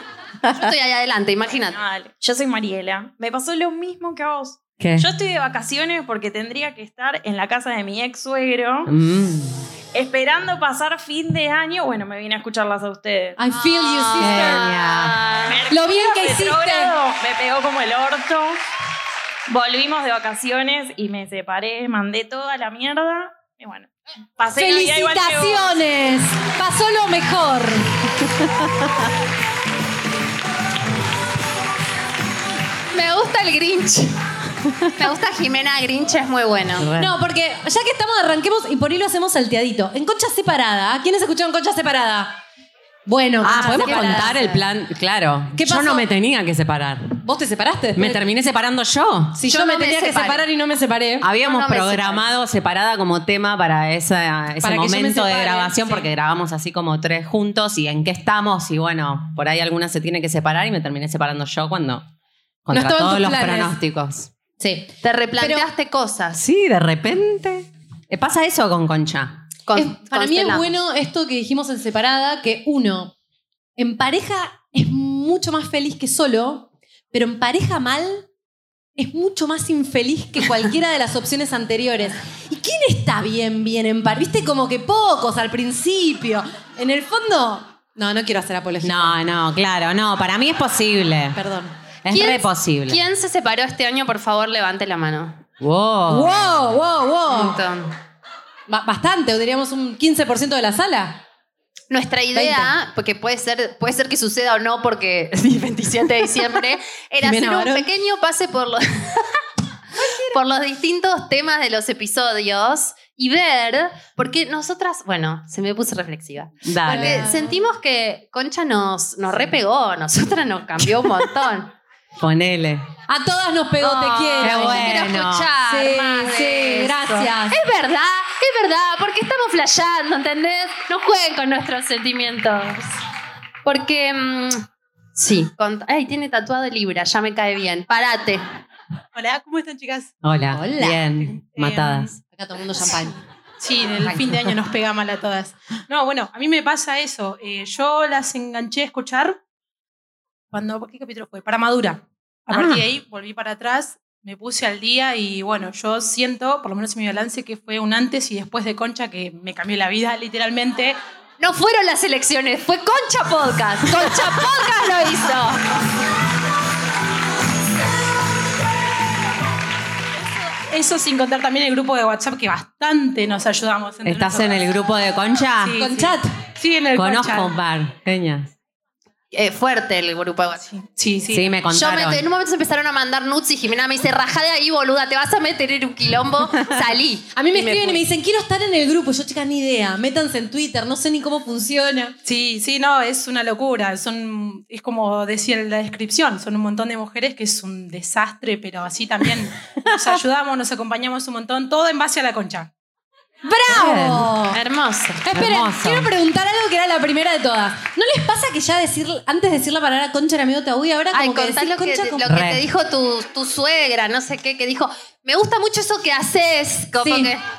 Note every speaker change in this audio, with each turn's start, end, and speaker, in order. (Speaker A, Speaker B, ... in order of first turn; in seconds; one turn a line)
Speaker A: 0.5-1.8
Speaker B: 1.8-8.9
Speaker C: 4.8-5.1
Speaker C: 8.8-9.6
Speaker B: 9.9-13.4
Speaker D: 13.4-14.7
Speaker A: 13.7-15.5
Speaker C: 14.2-15.3
Speaker B: 15.5-18.6
Speaker D: 15.7-16.9
Speaker B: 19.5-25.8
Speaker D: 24.5-27.9
Speaker A: 32.9-34.1
Speaker A: 35.0-36.9
Speaker C: 36.8-37.1
Speaker D: 37.0-42.4
Speaker D: 43.1-44.5
Speaker C: 43.4-47.1
Speaker A: 43.5-44.4
Speaker D: 45.5-46.0
Speaker D: 47.2-48.2
Speaker C: 48.0-49.4
Speaker D: 49.3-51.3
Speaker A: 49.5-50.4
Speaker C: 51.2-62.0
Speaker A: 51.4-52.2
Speaker D: 54.6-56.0
Speaker C: 62.6-64.3
Speaker D: 62.7-63.8
Speaker D: 64.6-65.7
Speaker A: 65.0-66.4
Speaker C: 66.4-69.4
Speaker A: 69.7-70.7
Speaker D: 69.7-73.1
Speaker D: 73.8-78.2
Speaker D: 79.0-89.2
Speaker C: 88.8-91.4
Speaker D: 91.3-91.7
Speaker C: 92.0-93.0
Speaker A: 92.1-95.4
Speaker C: 95.6-96.6
Speaker D: 96.1-97.6
Speaker A: 97.3-97.9
Speaker D: 98.7-101.2
Speaker A: 101.9-109.3
Speaker D: 102.3-102.7
Speaker D: 107.2-107.8
Speaker D: 110.0-110.4
Speaker A: 110.3-121.7
Speaker C: 116.7-117.3
Speaker D: 116.8-117.6
Speaker C: 122.2-122.9
Speaker D: 123.1-125.0
Speaker A: 123.8-132.9
Speaker C: 124.4-125.5
Speaker D: 125.6-127.6
Speaker A: 133.6-134.6
Speaker A: 135.2-138.4
Speaker E: 139.1-140.1
Speaker C: 140.2-142.2
Speaker D: 140.5-141.0
Speaker E: 141.6-142.1
Speaker D: 142.2-143.2
Speaker E: 143.6-149.4
Speaker C: 144.1-144.4
Speaker E: 150.5-161.0
Speaker C: 152.5-152.8
Speaker A: 161.4-165.6
Speaker E: 170.7-174.7
Speaker C: 174.0-175.8
Speaker E: 175.6-177.6
Speaker D: 175.8-176.3
Speaker C: 176.9-178.5
Speaker A: 179.3-180.6
Speaker E: 180.7-181.6
Speaker C: 181.3-182.2
Speaker A: 181.7-188.0
Speaker D: 187.3-192.1
Speaker E: 192.2-202.7
Speaker C: 199.8-200.2
Speaker D: 203.4-204.6
Speaker C: 203.7-204.3
Speaker A: 204.5-205.2
Speaker D: 205.2-212.2
Speaker C: 205.3-206.1
Speaker A: 211.1-217.4
Speaker C: 212.2-212.6
Speaker D: 217.0-217.3